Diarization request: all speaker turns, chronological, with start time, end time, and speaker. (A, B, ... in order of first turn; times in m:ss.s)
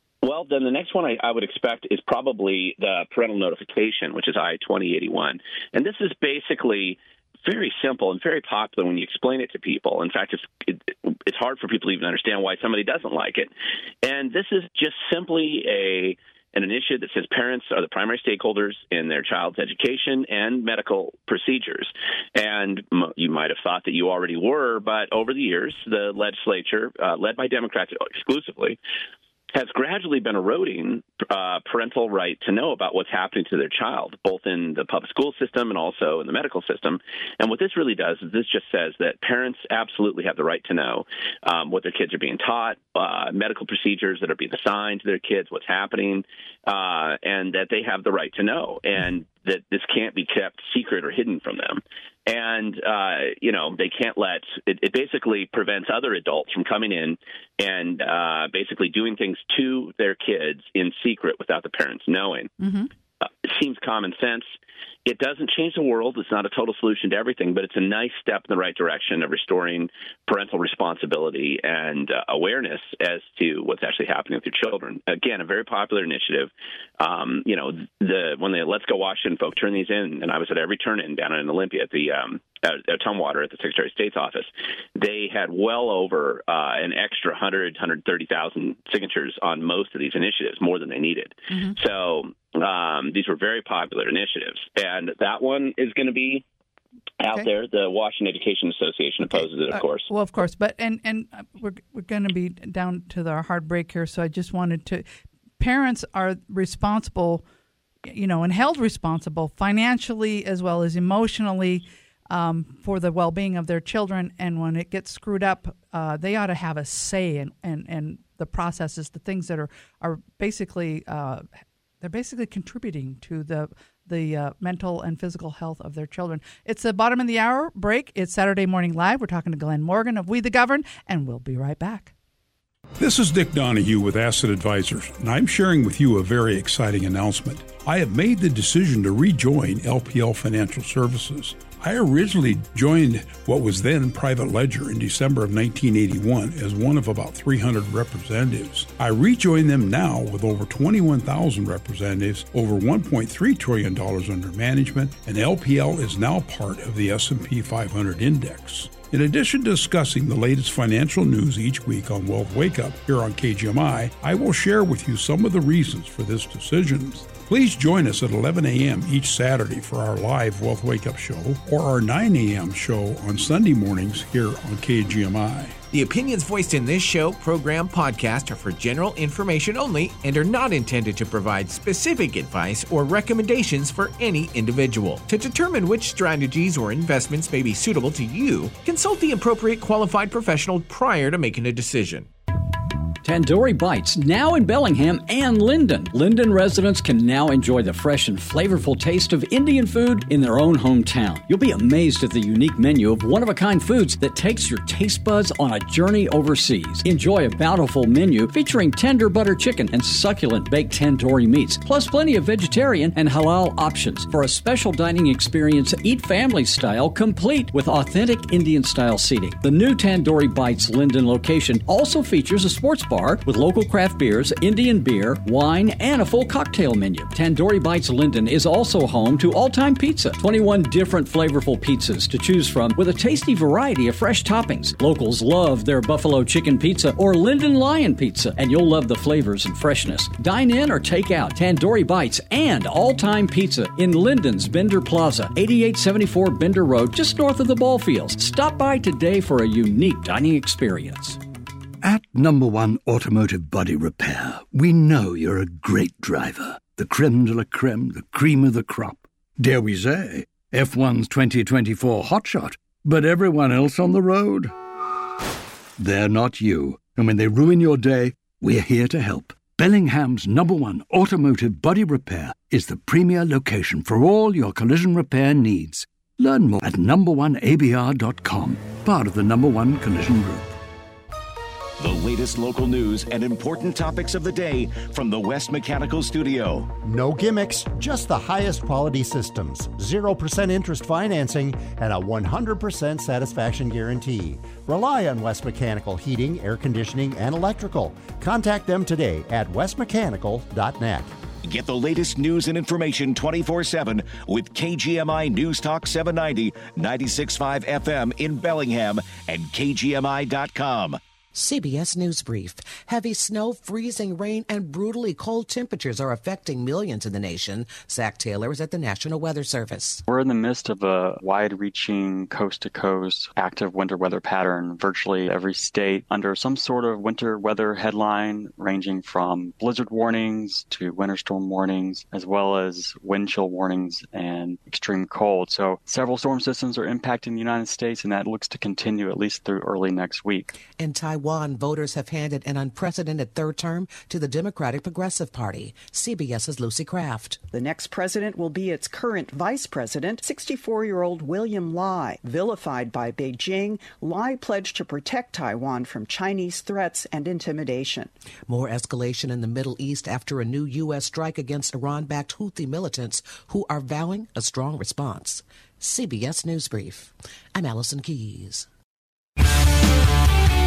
0:00.2-0:13.5 A
0:14.0-0:28.8 A
0:29.5-1:02.5 A
1:02.6-1:02.9 B
1:03.4-1:04.5 A
1:05.1-1:36.4 A
1:37.2-1:40.1 A
1:39.3-1:45.0 B
1:45.6-1:47.4 B
1:48.0-2:01.5 B
2:02.0-2:12.1 B
2:13.0-2:55.8 C
2:55.9-3:12.3 D
3:13.2-4:11.4 E
4:12.0-4:24.7 F
4:26.0-4:40.8 F
4:42.0-4:46.9 G
4:47.0-5:01.3 H
5:01.6-5:11.2 G
5:11.5-5:20.2 I
5:20.3-5:40.7 J
5:40.8-5:47.7 I
5:47.7-5:58.3 K
5:58.7-6:08.9 I